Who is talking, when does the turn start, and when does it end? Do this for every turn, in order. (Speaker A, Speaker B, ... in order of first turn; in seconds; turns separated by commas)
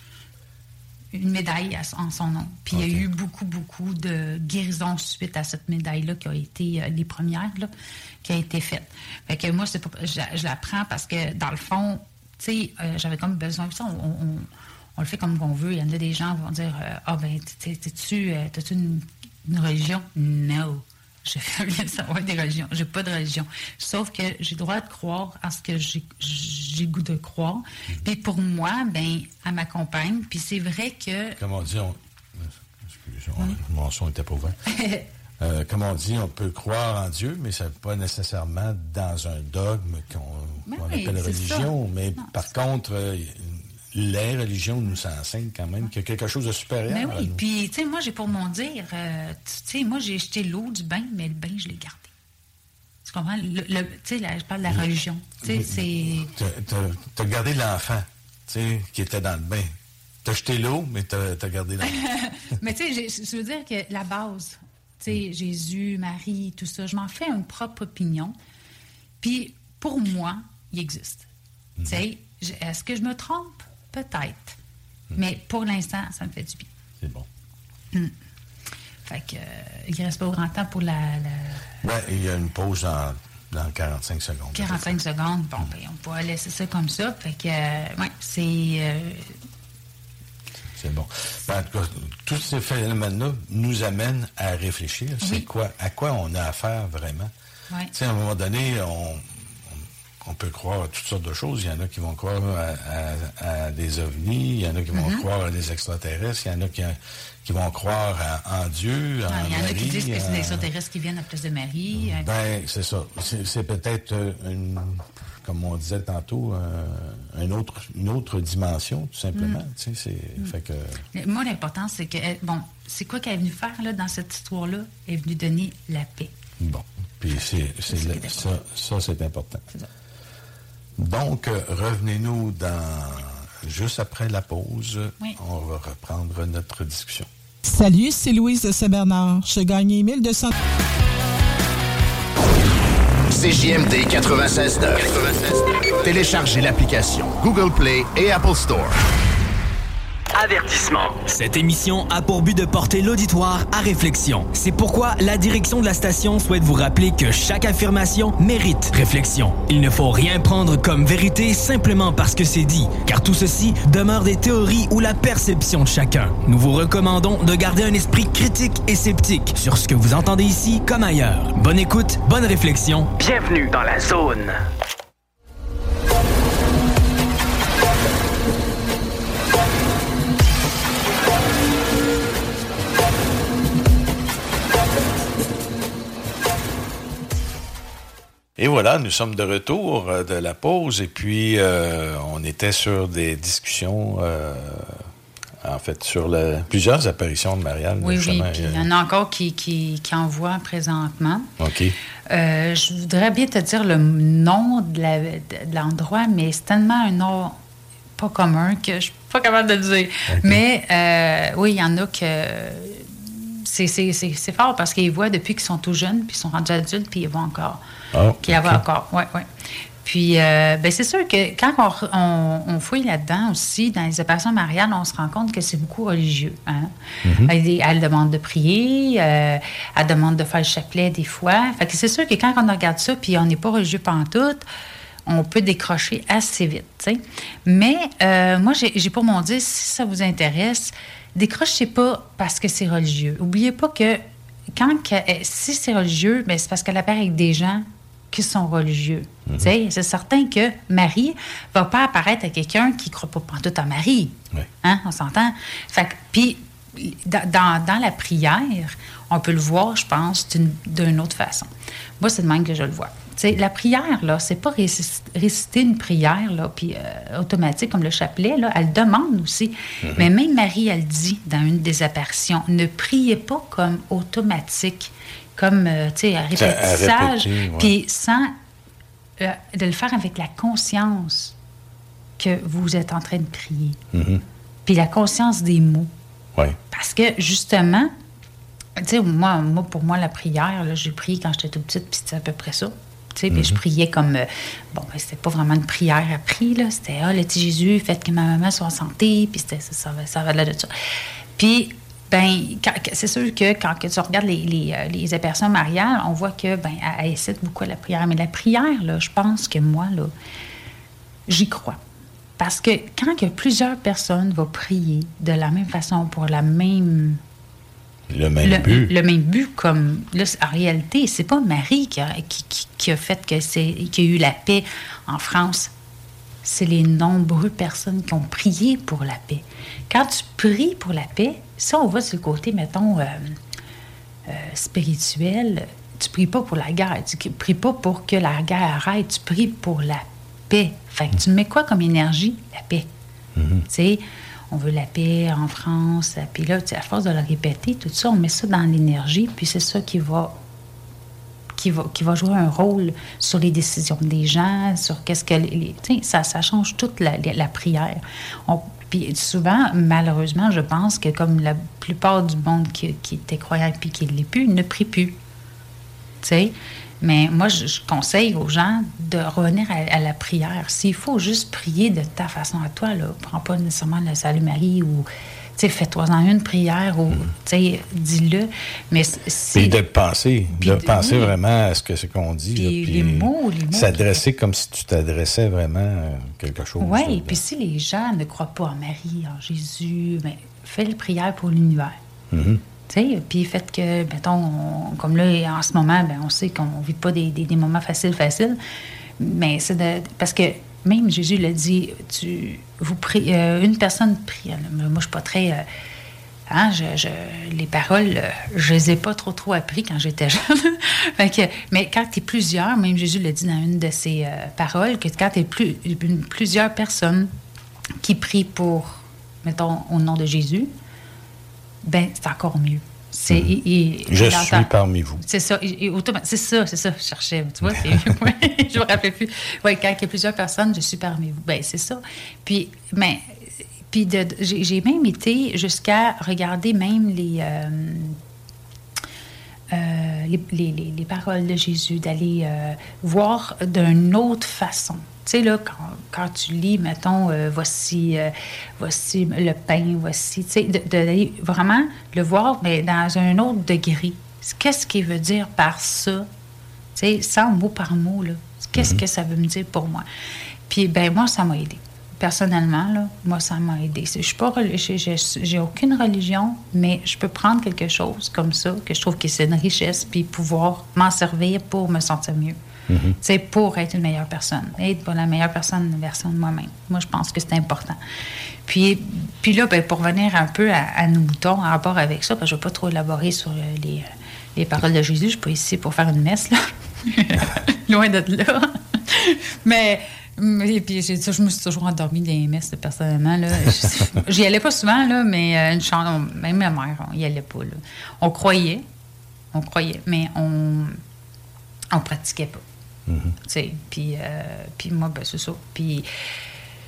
Speaker A: 1.1-7.7, Speaker B: 2.7-3.0, Speaker A: 8.2-31.4, Speaker B: 31.4-34.6, Speaker A: 34.7-35.1, Speaker B: 35.4-47.4, Speaker A: 40.7-42.4, Speaker A: 46.9-52.1, Speaker A: 53.0-56.3, Speaker B: 55.4-62.0, Speaker A: 61.8-68.3, Speaker A: 69.2-71.3, Speaker B: 71.8-72.0, Speaker A: 71.8-74.6, Speaker A: 75.2-76.7, Speaker B: 77.0-77.3, Speaker A: 79.1-81.6, Speaker B: 81.8-85.0, Speaker A: 84.5-89.3, Speaker B: 90.8-97.3, Speaker A: 95.2-95.5, Speaker B: 97.9-110.7, Speaker A: 104.9-105.2, Speaker A: 109.3-112.3, Speaker B: 111.9-121.0, Speaker A: 119.3-119.6, Speaker A: 121.1-126.3, Speaker B: 126.6-129.7, Speaker A: 127.9-128.5, Speaker B: 131.0-137.3, Speaker C: 137.7-140.5, Speaker D: 143.3-149.0, Speaker E: 150.3-151.3, Speaker F: 151.3-173.1, Speaker E: 173.2-174.6, Speaker B: 188.6-195.1, Speaker B: 195.6-198.9, Speaker A: 198.0-201.5, Speaker B: 201.6-202.0, Speaker A: 202.3-207.6, Speaker A: 208.2-217.8, Speaker B: 210.3-210.6, Speaker B: 218.1-218.8, Speaker A: 218.4-219.5, Speaker A: 220.0-234.7, Speaker B: 227.2-227.5, Speaker A: 235.3-244.2, Speaker A: 244.7-278.5, Speaker B: 270.0-270.3, Speaker B: 276.6-277.9, Speaker A: 279.4-281.6, Speaker A: 282.4-284.0, Speaker B: 284.1-284.4, Speaker A: 284.9-286.1, Speaker A: 286.9-288.1, Speaker A: 289.0-300.9, Speaker B: 293.5-293.8, Speaker A: 301.6-310.3, Speaker A: 311.5-312.0, Speaker A: 312.6-317.4, Speaker B: 318.3-319.1, Speaker A: 318.6-325.9, Speaker A: 326.6-333.6, Speaker A: 334.5-343.1, Speaker B: 343.6-343.9, Speaker A: 343.9-350.6, Speaker A: 351.8-365.4, Speaker A: 366.4-380.0, Speaker B: 379.8-387.6, Speaker A: 380.8-381.6, Speaker A: 382.8-384.4, Speaker A: 387.0-392.2, Speaker B: 392.5-392.8, Speaker A: 393.1-398.8, Speaker A: 399.4-405.9, Speaker A: 406.7-417.5, Speaker A: 418.2-420.9, Speaker A: 422.0-433.6, Speaker B: 424.3-425.4, Speaker B: 427.9-428.3, Speaker A: 434.1-438.4, Speaker A: 439.9-456.5, Speaker A: 457.2-460.3, Speaker B: 459.0-459.2, Speaker A: 460.9-472.8, Speaker B: 473.1-473.4, Speaker A: 473.4-478.2, Speaker A: 478.9-499.0, Speaker A: 499.7-501.2, Speaker A: 502.1-502.8, Speaker B: 503.3-503.6, Speaker A: 503.7-506.3